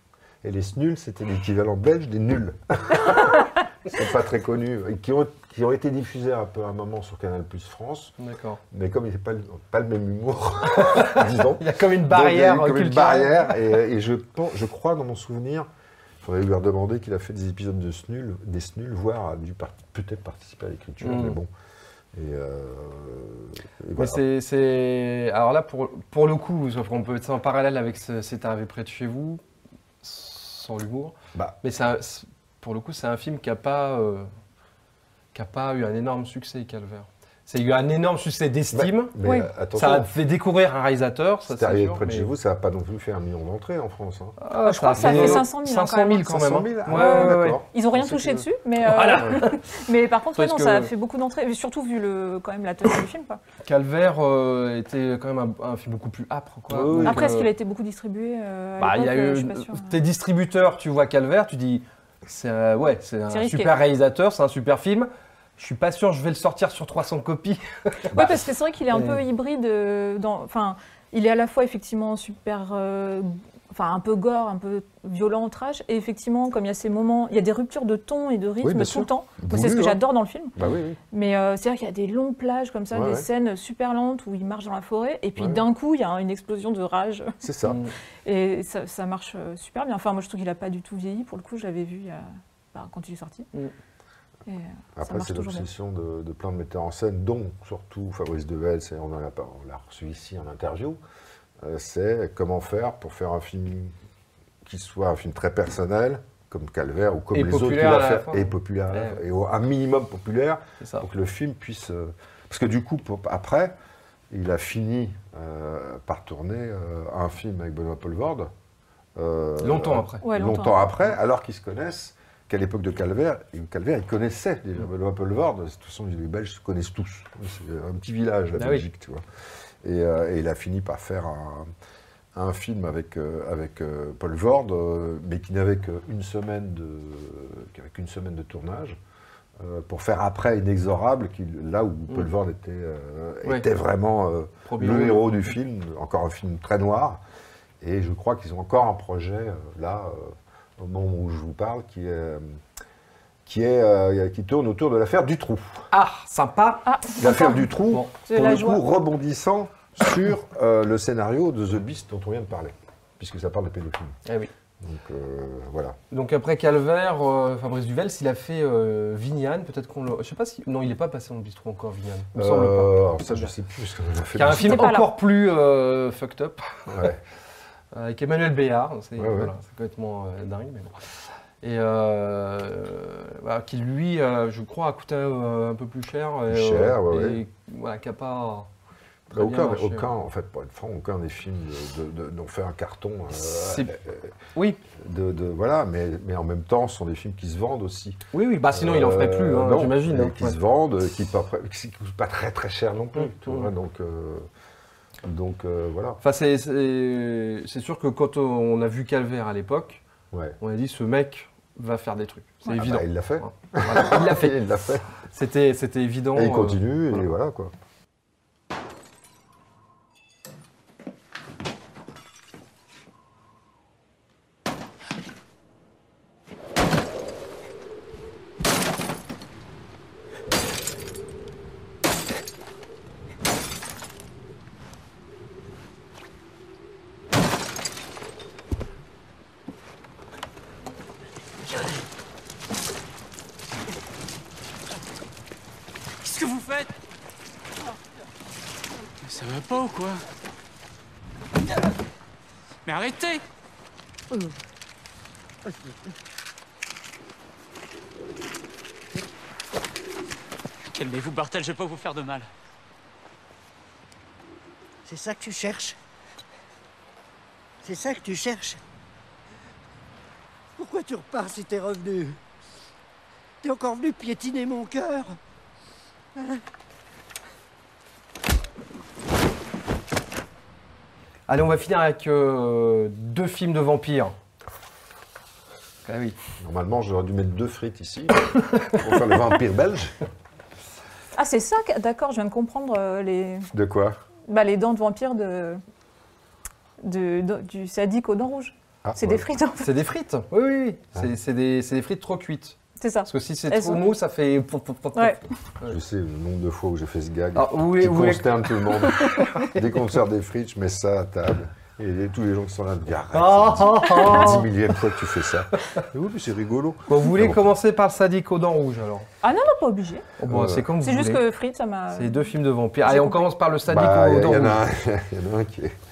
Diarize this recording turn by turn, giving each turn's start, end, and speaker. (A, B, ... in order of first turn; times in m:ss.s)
0:00.4-0:08.1 A
0:08.2-0:08.6 B
0:08.7-0:15.7 A
0:10.8-0:13.6 B
0:16.2-0:21.5 A
0:21.0-0:21.4 B
0:22.1-0:24.2 A
0:24.0-0:29.4 B
0:30.0-0:34.3 B
0:35.3-0:39.1 B
0:38.7-0:40.1 A
0:39.2-0:39.5 C
0:39.7-0:42.3 B
0:41.5-0:44.4 A
0:44.4-0:48.1 B
0:44.6-0:46.2 C
0:44.9-0:45.5 A
0:46.2-0:48.4 A
0:46.9-0:53.4 C
0:48.8-0:49.8 B
0:50.3-0:50.9 B
0:53.6-0:57.5 B
0:56.7-0:57.3 A
0:57.0-0:59.9 C
0:58.8-1:08.2 B
1:03.3-1:03.8 C
1:08.1-1:20.6 C
1:08.1-1:08.4 A
1:08.9-1:09.2 B
1:18.6-1:20.0 A
1:20.6-1:21.0 A
1:21.1-1:27.3 C
1:22.9-1:23.3 A
1:25.4-1:25.6 A
1:27.4-1:27.8 A
1:27.6-1:27.9 B
1:28.2-1:33.5 C
1:34.5-1:35.7 C
1:35.0-1:41.0 A
1:41.6-1:43.9 A
1:44.6-1:53.7 A
1:47.3-1:49.2 B
1:54.3-1:58.5 A
1:59.2-2:09.2 A
1:59.6-2:00.2 B
2:00.2-2:00.9 C
2:08.6-2:08.8 B
2:09.8-2:11.7 A
2:12.3-2:19.0 A
2:19.6-2:27.2 A
2:24.6-2:25.4 B
2:27.8-2:32.6 A
2:33.4-2:35.9 A
2:35.9-2:36.8 B
2:36.8-2:37.7 C
2:37.2-2:44.1 A
2:38.3-2:38.8 C
2:44.8-2:46.0 A
2:46.1-2:53.5 B
2:52.3-2:54.9 A
2:54.3-2:57.1 B
2:54.5-2:55.1 C
2:56.9-2:57.2 A
2:57.9-3:01.0 B
2:59.2-2:59.5 A
3:01.6-3:08.7 B
3:06.5-3:07.4 A
3:09.3-3:14.3 A
3:09.3-3:10.1 B
3:13.4-3:13.9 B
3:14.6-3:14.8 B
3:14.9-3:24.5 A
3:18.3-3:20.6 B
3:23.1-3:23.7 B
3:25.2-3:26.2 A
3:26.2-3:30.0 B
3:30.3-3:30.6 A
3:30.6-3:34.6 B
3:32.7-3:35.0 A
3:35.3-3:37.2 B
3:36.3-3:37.7 A
4:06.2-4:06.9 D
4:09.2-4:10.2 D
4:12.8-4:13.4 D
4:20.9-4:22.5 D
4:25.0-4:26.0 E
4:27.8-4:28.8 E
4:30.8-4:32.4 E
4:33.6-4:35.4 E
4:41.5-4:44.3 B
4:46.0-4:46.4 B
4:46.6-4:50.2 A
4:51.3-4:53.7 C
4:53.7-4:54.2 A
4:54.5-4:55.8 C
4:57.0-4:59.9 C
4:59.0-4:59.4 A
4:59.8-5:05.9 B
5:03.0-5:04.0 C
5:05.8-5:17.6 A
5:07.5-5:09.8 B
5:09.2-5:09.5 C
5:13.3-5:14.7 B
5:17.1-5:19.3 B
5:19.4-5:20.3 C
5:20.4-5:21.4 B
5:20.4-5:20.9 A
5:21.0-5:22.5 C
5:22.1-5:24.8 B
5:23.0-5:23.4 C
5:23.9-5:26.0 A